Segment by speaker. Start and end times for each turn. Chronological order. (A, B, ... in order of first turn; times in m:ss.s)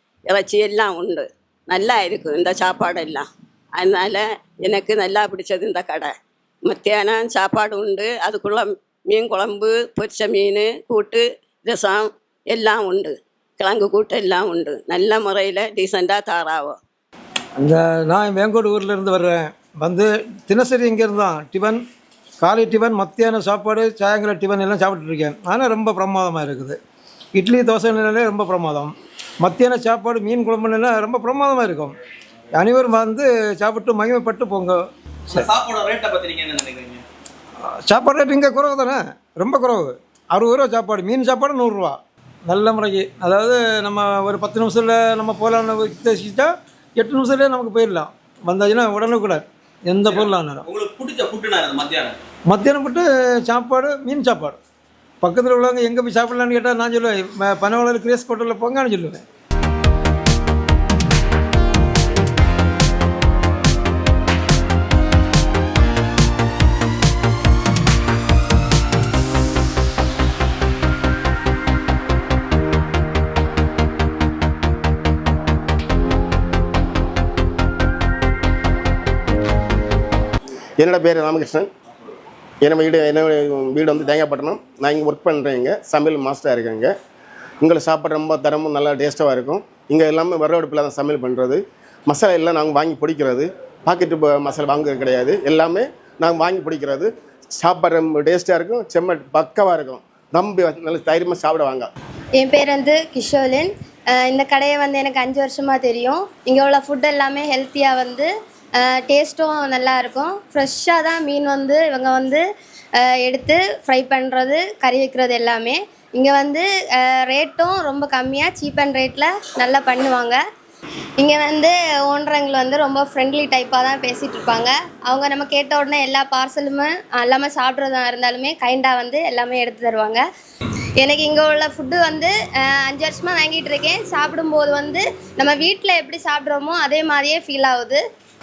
0:00.3-0:16.8 A
0:17.6-0:21.8 B
0:22.4-0:26.8 B
0:27.4-0:32.0 B
0:32.5-0:34.8 B
0:35.3-0:37.0 C
0:37.8-0:50.6 B
0:50.0-0:52.2 C
0:52.5-0:54.6 B
0:55.2-0:59.2 B
1:20.8-1:21.7 D
1:22.6-1:26.9 D
1:27.6-1:41.9 D
1:42.4-1:52.4 E
1:53.0-2:00.4 E
2:01.2-2:10.2 E
2:11.0-2:18.0 E